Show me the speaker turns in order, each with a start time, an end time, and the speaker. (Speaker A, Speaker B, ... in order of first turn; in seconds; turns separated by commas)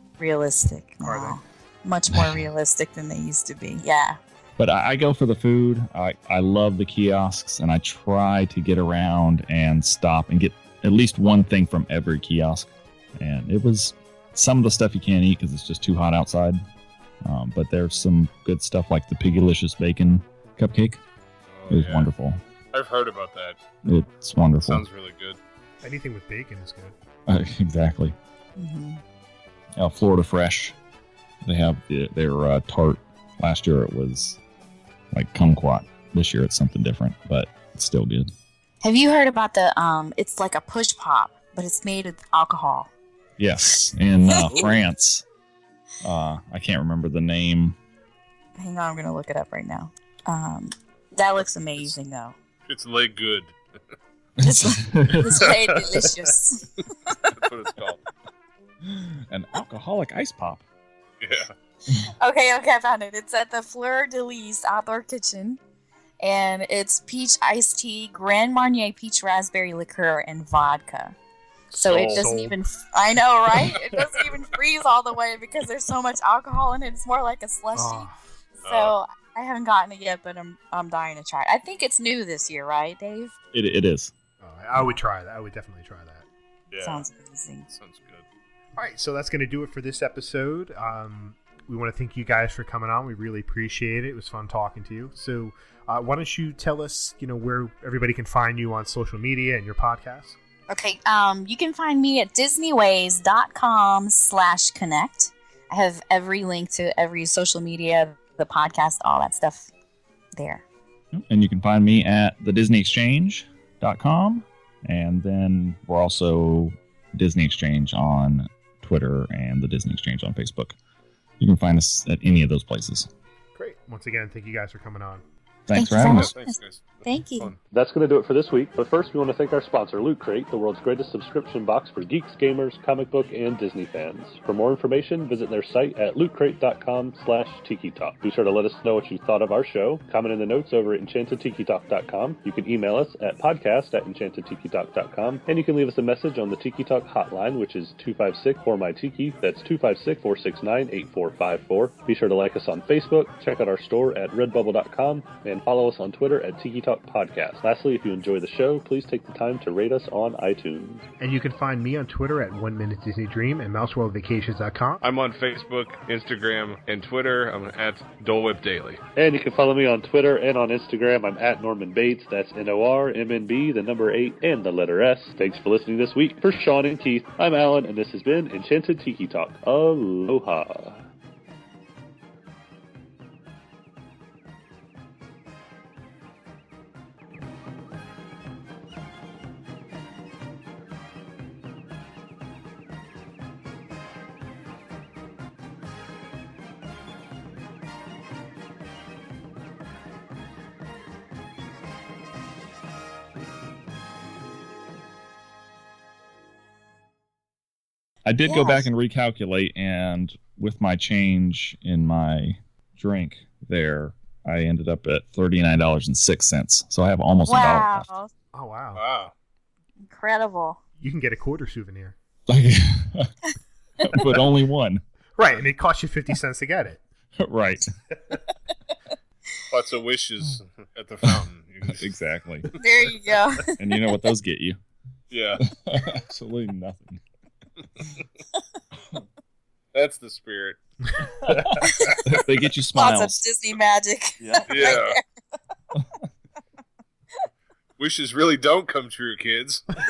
Speaker A: 0.2-4.2, Speaker B: 1.0-1.4, Speaker C: 4.6-16.6, Speaker C: 17.2-21.0, Speaker D: 21.5-22.1, Speaker C: 21.7-22.4, Speaker D: 22.7-23.6, Speaker C: 23.9-24.9, Speaker D: 24.6-25.4, Speaker B: 25.8-26.9, Speaker C: 27.3-28.2, Speaker A: 28.6-29.0, Speaker C: 29.8-30.8, Speaker C: 31.4-34.4, Speaker C: 35.1-38.3, Speaker A: 38.8-42.9, Speaker C: 43.4-45.2, Speaker A: 44.3-44.5, Speaker C: 46.0-47.8, Speaker A: 48.6-52.4, Speaker D: 52.7-53.6, Speaker C: 54.4-55.6, Speaker A: 54.4-57.4, Speaker B: 55.4-56.3, Speaker D: 57.4-58.0, Speaker C: 58.8-60.6, Speaker D: 61.2-61.5, Speaker A: 62.2-65.6, Speaker A: 66.2-71.2, Speaker B: 71.7-72.6, Speaker A: 71.7-83.3, Speaker D: 71.8-72.3, Speaker B: 77.8-78.4, Speaker D: 78.7-78.9, Speaker C: 83.5-84.1, Speaker B: 84.4-86.3, Speaker D: 86.7-87.1, Speaker A: 86.8-87.7, Speaker D: 87.7-88.2, Speaker B: 88.8-100.4, Speaker A: 100.7-109.7, Speaker A: 110.3-110.7, Speaker C: 111.1-120.8, Speaker C: 121.4-123.1, Speaker B: 123.6-125.2, Speaker C: 125.7-126.3, Speaker A: 125.7-127.5, Speaker D: 126.0-127.6, Speaker E: 127.7-161.1, Speaker B: 161.2-165.0, Speaker D: 165.0-169.0, Speaker E: 169.2-181.0, Speaker C: 208.2-218.1, Speaker A: 208.4-208.9, Speaker A: 217.5-218.3, Speaker B: 218.5-219.0, Speaker D: 219.0-219.3, Speaker A: 220.1-220.8, Speaker B: 221.0-222.2, Speaker C: 222.5-223.3, Speaker C: 224.0-225.0, Speaker B: 225.4-227.0, Speaker C: 227.4-227.9, Speaker B: 228.1-228.4, Speaker D: 229.7-232.2, Speaker C: 231.2-232.7, Speaker A: 232.8-233.7, Speaker C: 233.8-234.8, Speaker D: 235.3-235.6, Speaker C: 235.6-237.2, Speaker D: 239.9-240.8, Speaker B: 241.2-241.8, Speaker C: 241.5-241.7, Speaker A: 241.8-242.2, Speaker C: 242.2-243.4, Speaker A: 242.9-245.2, Speaker D: 244.7-245.2, Speaker C: 246.0-246.2, Speaker D: 248.0-250.0